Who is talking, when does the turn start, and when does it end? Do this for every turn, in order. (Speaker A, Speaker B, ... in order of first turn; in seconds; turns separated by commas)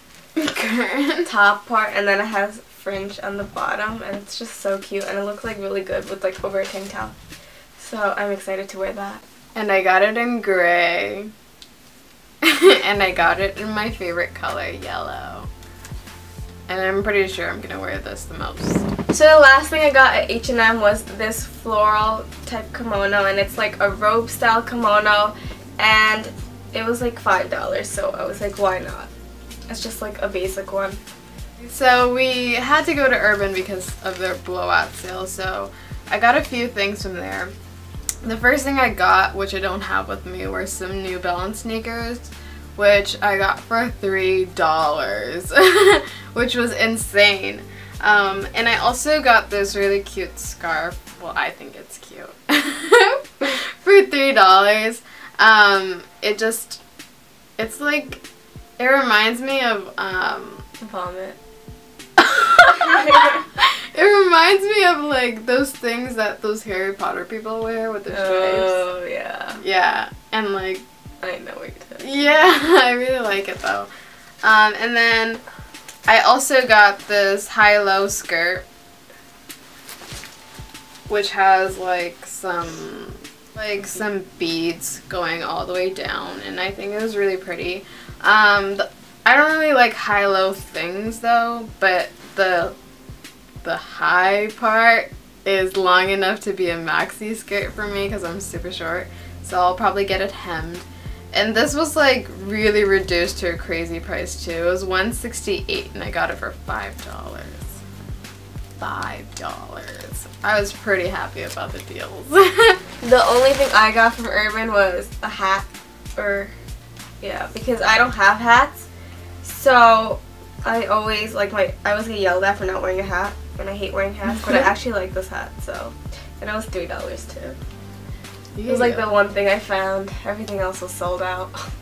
Speaker A: 0.3-1.3, Speaker B: 1.2-7.1, Speaker B: 7.8-9.2, Speaker A: 9.5-11.3, Speaker A: 12.4-15.5, Speaker A: 16.7-18.9, Speaker B: 19.1-29.1, Speaker B: 29.7-31.0, Speaker A: 31.6-37.5, Speaker A: 38.2-56.8, Speaker A: 57.6-58.2, Speaker A: 58.8-60.6, Speaker B: 60.8-61.4, Speaker A: 62.2-68.8, Speaker B: 68.1-69.6, Speaker A: 69.6-70.8, Speaker B: 71.2-72.1, Speaker A: 72.0-73.9, Speaker A: 74.4-75.4, Speaker A: 76.0-78.6, Speaker A: 81.1-92.7, Speaker A: 93.6-107.8, Speaker A: 108.8-112.8, Speaker B: 113.0-116.5, Speaker B: 117.2-118.9, Speaker B: 119.4-127.6, Speaker A: 124.4-124.7, Speaker A: 128.5-129.1, Speaker B: 128.7-131.7